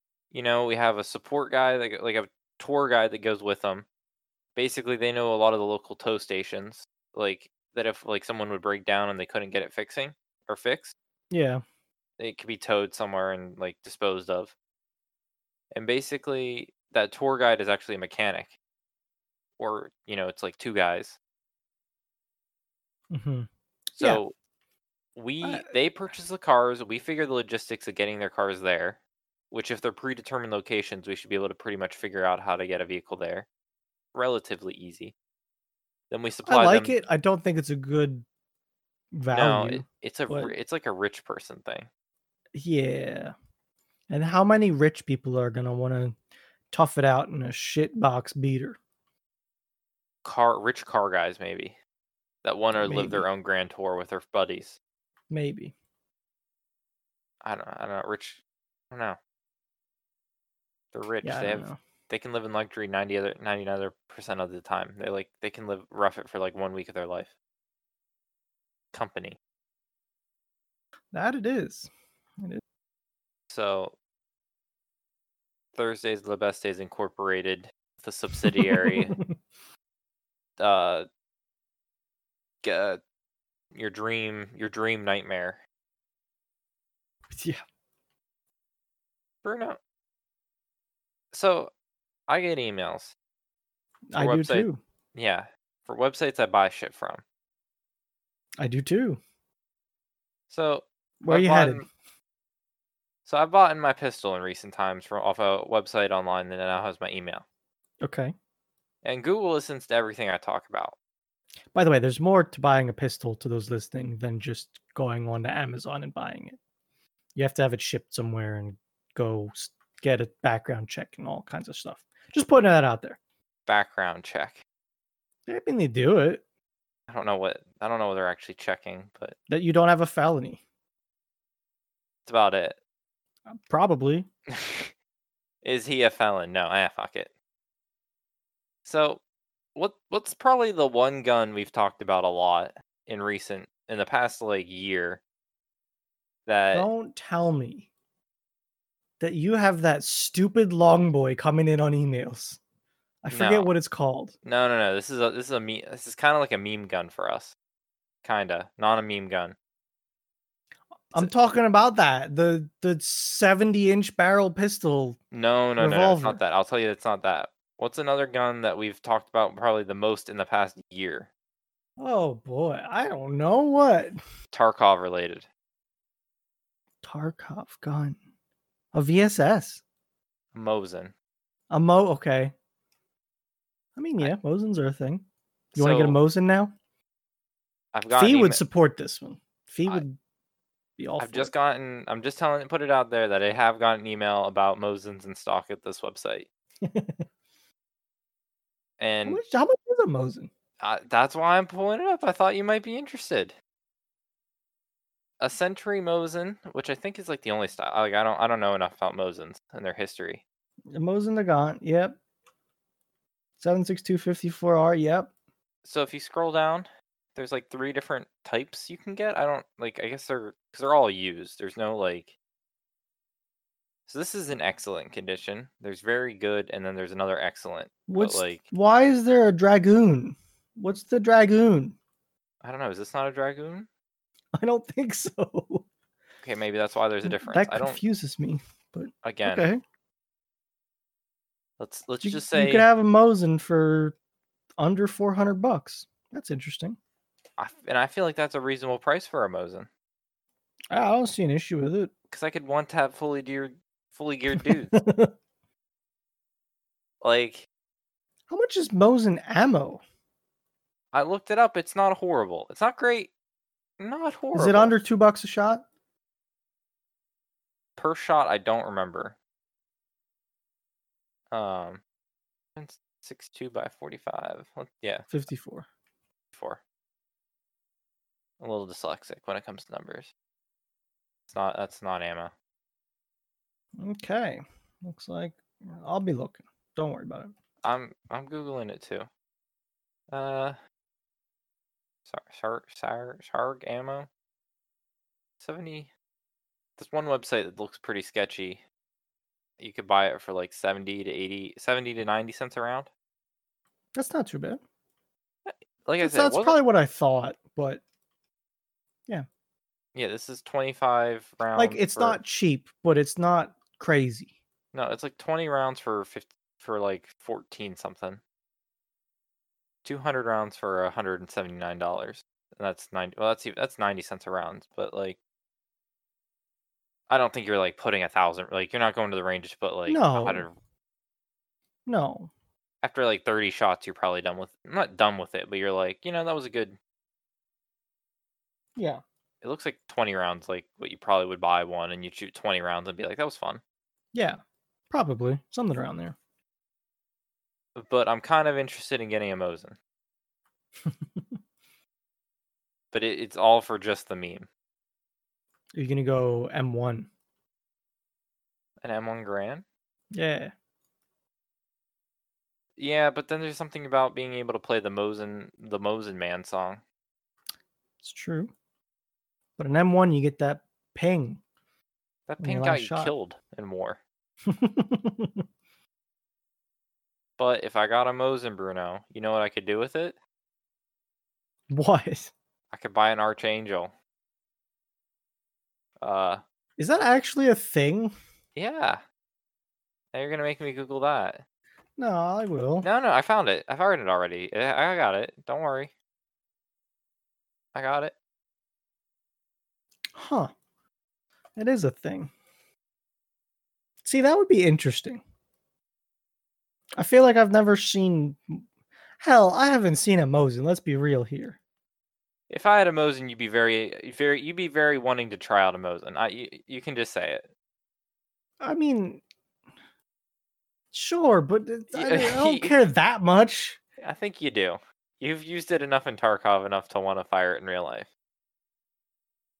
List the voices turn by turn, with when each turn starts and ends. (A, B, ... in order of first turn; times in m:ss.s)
0:00.3-0:03.8 A
0:04.6-0:10.9 A
0:11.3-0:11.6 B
0:12.2-0:14.5 A
0:15.7-0:18.6 A
0:19.6-0:21.2 A
0:23.1-0:24.2 B
0:24.0-0:24.3 A
0:25.2-0:29.0 A
0:25.4-0:25.7 B
0:29.5-0:33.5 A
0:34.1-0:35.1 A
0:36.1-0:37.0 A
0:36.4-0:38.2 B
0:39.1-0:40.5 B
0:39.3-0:41.9 A
0:42.5-0:43.3 B
0:44.1-0:46.2 B
0:46.7-0:48.8 B
0:50.2-0:51.8 A
0:52.4-0:54.8 A
0:52.8-0:53.2 B
0:55.3-0:55.7 B
0:57.4-0:58.4 A
0:58.9-0:59.2 A
1:00.9-1:07.3 A
1:01.2-1:01.8 B
1:08.9-1:09.4 A
1:11.1-1:12.6 B
1:13.5-1:13.9 A
1:15.7-1:19.2 A
1:18.4-1:19.3 B
1:20.6-1:21.0 A
1:22.6-1:23.0 A
1:23.7-1:25.6 A
1:27.3-1:27.6 B
1:29.4-1:29.8 A
1:31.3-1:31.7 A
1:32.3-1:33.1 A
1:34.1-1:34.8 B
1:34.2-1:37.2 A
1:38.6-1:39.2 B
1:40.5-1:41.9 A
1:41.2-1:41.8 B
1:43.2-1:47.4 A
1:48.0-1:48.3 B
1:49.0-1:51.0 A
1:51.7-1:56.6 B
1:57.4-2:03.2 B
2:03.7-2:04.6 A
2:05.5-2:06.4 B
2:07.1-2:09.3 A
2:09.5-2:10.6 B
2:12.2-2:12.8 A
2:13.5-2:14.3 B
2:14.5-2:14.9 A
2:15.6-2:17.3 A
2:18.8-2:19.2 A
2:19.7-2:25.2 A
2:26.4-2:26.9 A
2:26.7-2:27.9 B
2:29.2-2:32.6 B
2:33.2-2:34.3 B
2:33.3-2:33.7 A
2:34.4-2:37.5 A
2:38.2-2:39.5 A
2:41.1-2:45.2 B
2:45.3-2:51.3 A
2:45.8-2:46.4 B
2:52.0-2:54.2 B
2:54.5-2:55.4 A
2:57.0-2:58.2 B
2:58.9-2:59.8 B
3:00.5-3:01.1 A
3:01.7-3:02.5 B
3:04.0-3:06.7 B
3:05.7-3:06.2 A
3:07.9-3:08.6 A
3:08.1-3:10.2 B
3:11.0-3:11.5 B
3:11.2-3:16.5 A
3:16.8-3:17.2 B
3:19.0-3:19.4 A
3:19.2-3:20.5 B
3:20.8-3:23.5 A
3:25.4-3:30.4 A
3:30.9-3:32.2 B
3:33.6-3:35.3 B
3:35.8-3:42.3 A
3:44.1-3:48.6 A
3:48.1-3:51.9 B
3:52.6-3:53.9 A
3:54.5-3:55.8 B
3:56.4-3:58.0 A
3:57.2-3:59.8 B
3:59.2-3:59.7 A
4:01.8-4:02.9 A
4:02.2-4:04.2 B
4:04.8-4:07.0 B
4:07.6-4:09.9 A
4:10.9-4:12.1 B
4:12.3-4:14.9 A
4:14.6-4:15.3 B
4:17.2-4:17.6 A
4:18.5-4:20.0 B
4:21.1-4:23.3 A
4:24.0-4:25.0 A
4:24.5-4:25.8 B
4:28.0-4:29.4 A
4:31.5-4:32.0 A
4:32.8-4:35.2 A
4:35.3-4:35.8 B
4:36.5-4:36.8 A
4:38.6-4:40.3 A
4:41.5-4:42.5 A
4:44.0-4:47.5 B
4:47.8-4:49.3 A
4:50.3-4:50.8 A
4:52.3-4:54.3 A
4:55.6-4:56.1 A
4:57.0-4:58.8 A
4:59.8-5:03.1 A
5:04.1-5:04.8 B
5:05.6-5:06.8 A
5:06.2-5:08.0 B
5:10.1-5:12.4 A
5:11.8-5:14.5 B
5:14.9-5:18.4 A
5:20.0-5:25.4 A
5:27.3-5:30.8 A
5:30.1-5:30.7 B
5:32.0-5:32.5 B
5:33.0-5:37.0 A
5:39.0-5:39.2 B
5:39.6-5:43.8 A
5:44.3-5:44.6 B
5:45.1-5:46.4 B
5:48.0-5:50.0 A
5:51.0-5:51.6 B
5:53.1-5:54.7 A
5:55.9-5:57.3 B
5:59.0-5:59.8 A
6:00.3-6:00.7 B
6:03.0-6:07.0 A
6:08.2-6:08.7 B
6:09.8-6:11.6 B
6:12.5-6:14.2 A
6:12.6-6:13.3 B
6:14.6-6:15.6 B
6:17.6-6:20.4 A
6:21.9-6:22.5 B
6:22.9-6:24.1 A
6:26.2-6:26.6 A
6:27.0-6:28.3 B
6:28.7-6:29.2 A
6:30.3-6:31.6 A
6:32.2-6:33.1 B
6:33.0-6:36.1 A
6:37.9-6:38.3 A
6:40.3-6:40.7 B
6:41.8-6:42.5 B
6:44.2-6:45.4 B
6:47.2-6:48.8 B
6:49.4-6:51.8 B
6:52.7-6:57.7 A
6:58.8-6:59.4 B
7:01.1-7:04.0 B
7:02.1-7:03.0 A
7:04.2-7:08.3 A